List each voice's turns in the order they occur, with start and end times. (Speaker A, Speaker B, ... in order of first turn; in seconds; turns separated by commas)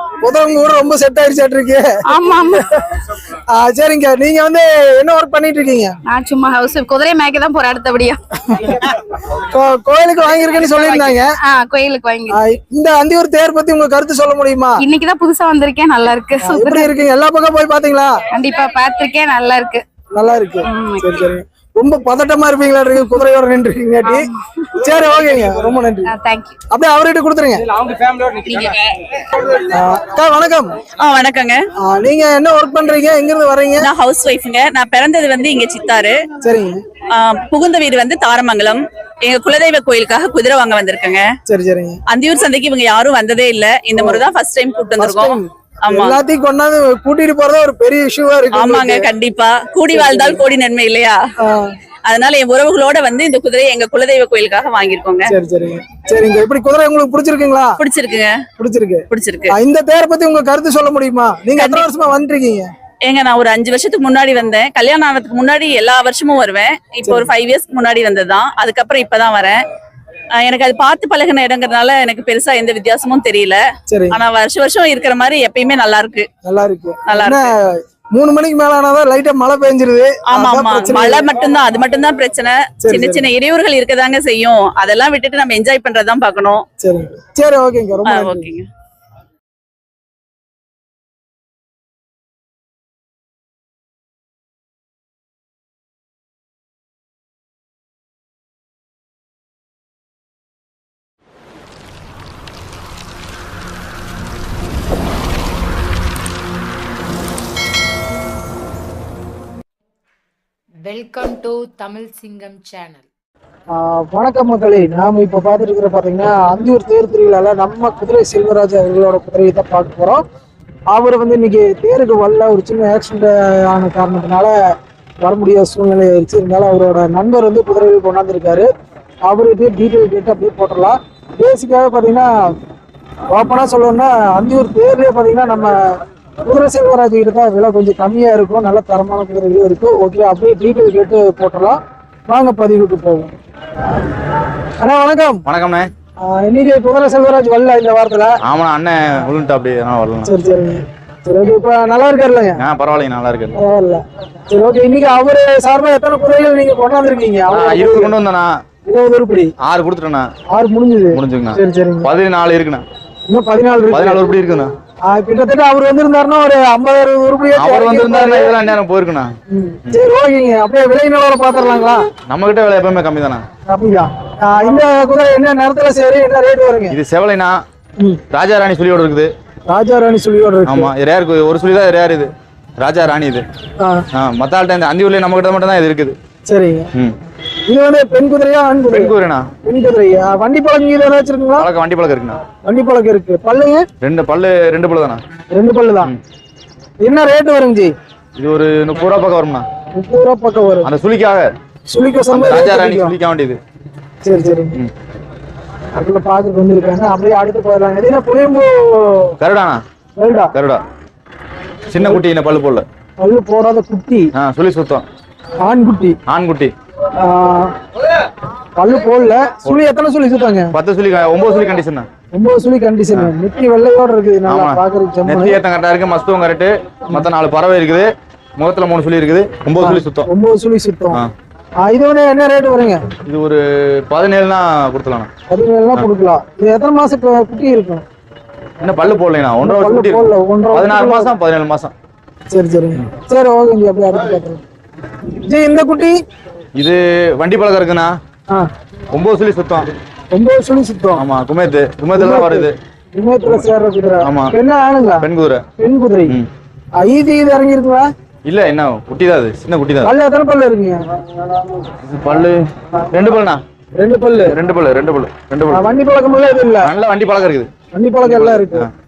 Speaker A: 0.2-1.9, Speaker B: 2.1-2.7, Speaker A: 3.3-6.0, Speaker B: 6.0-8.2, Speaker A: 8.5-11.3, Speaker B: 11.4-12.4, Speaker A: 12.3-14.8, Speaker B: 14.8-16.9, Speaker A: 16.4-18.1, Speaker B: 18.3-19.8, Speaker A: 20.1-26.1, Speaker B: 20.6-21.2, Speaker B: 24.1-24.4, Speaker B: 26.1-26.6, Speaker A: 26.7-27.7, Speaker B: 27.9-29.1, Speaker A: 29.5-30.7, Speaker C: 31.0-31.6, Speaker A: 31.8-33.9, Speaker C: 33.8-36.2, Speaker A: 36.4-36.8, Speaker C: 37.1-41.3, Speaker A: 41.5-42.0, Speaker C: 42.1-46.2, Speaker A: 44.0-44.2, Speaker A: 45.0-49.1, Speaker C: 48.5-51.2, Speaker A: 49.9-50.4, Speaker A: 51.4-51.7, Speaker C: 52.1-55.3, Speaker A: 55.3-57.8, Speaker C: 57.8-58.4, Speaker A: 58.6-62.7, Speaker C: 59.1-59.5, Speaker C: 61.6-61.9, Speaker C: 63.0-69.6, Speaker A: 67.0-67.3, Speaker C: 70.4-73.6, Speaker A: 73.9-74.2, Speaker C: 74.1-76.3, Speaker A: 76.4-81.3, Speaker C: 77.1-77.5, Speaker C: 80.3-86.6, Speaker A: 82.8-83.3, Speaker A: 86.8-88.5, Speaker C: 88.1-88.7, Speaker D: 110.8-113.1, Speaker A: 113.7-120.2, Speaker A: 120.9-124.5, Speaker A: 125.2-128.7, Speaker A: 129.2-132.5, Speaker A: 133.3-135.8, Speaker A: 136.4-143.3, Speaker A: 144.8-145.4, Speaker E: 145.5-145.9, Speaker A: 146.2-148.4, Speaker E: 148.4-150.3, Speaker A: 150.2-152.6, Speaker E: 152.6-153.6, Speaker A: 153.6-158.2, Speaker E: 157.5-158.6, Speaker A: 158.9-159.5, Speaker E: 159.6-160.3, Speaker A: 160.5-162.1, Speaker E: 161.1-162.8, Speaker A: 163.3-164.3, Speaker E: 163.9-164.7, Speaker A: 165.1-168.6, Speaker E: 167.6-169.3, Speaker A: 169.5-172.0, Speaker E: 172.3-173.4, Speaker A: 173.7-177.0, Speaker E: 176.9-177.6, Speaker E: 178.3-179.3, Speaker A: 179.7-180.9, Speaker E: 180.7-183.4, Speaker E: 184.1-186.2, Speaker A: 186.5-186.9, Speaker A: 187.7-191.7, Speaker E: 188.9-189.5, Speaker E: 191.6-192.4, Speaker A: 192.7-193.8, Speaker E: 194.0-195.2, Speaker A: 195.5-196.1, Speaker A: 197.0-197.9, Speaker E: 198.4-199.7, Speaker A: 199.9-200.9, Speaker E: 200.8-201.5, Speaker A: 201.9-203.2, Speaker E: 202.3-203.6, Speaker A: 204.2-204.8, Speaker A: 205.9-209.4, Speaker E: 209.4-209.8, Speaker A: 210.2-210.5, Speaker E: 210.5-210.8, Speaker E: 211.9-212.8, Speaker A: 213.2-214.3, Speaker E: 214.3-215.0, Speaker A: 215.6-216.2, Speaker E: 216.3-216.7, Speaker A: 217.2-217.7, Speaker A: 218.8-220.7, Speaker E: 220.7-222.1, Speaker A: 222.3-225.6, Speaker E: 224.5-230.3, Speaker A: 229.8-231.2, Speaker A: 231.8-233.0, Speaker E: 233.3-235.3, Speaker A: 235.5-238.0, Speaker E: 238.8-241.9, Speaker A: 239.6-241.3, Speaker A: 242.5-244.6, Speaker A: 245.4-246.2, Speaker E: 246.8-248.2, Speaker E: 249.1-249.9, Speaker A: 250.3-251.2, Speaker E: 251.2-252.7, Speaker A: 252.2-255.3, Speaker E: 254.2-254.5, Speaker E: 255.2-255.6, Speaker A: 255.8-256.4, Speaker A: 257.0-258.1, Speaker E: 258.4-260.1, Speaker A: 260.0-261.9, Speaker E: 262.0-263.6, Speaker A: 264.0-264.6, Speaker E: 264.4-265.9, Speaker A: 265.7-266.9, Speaker E: 266.8-267.7, Speaker A: 267.9-268.9, Speaker E: 268.2-268.9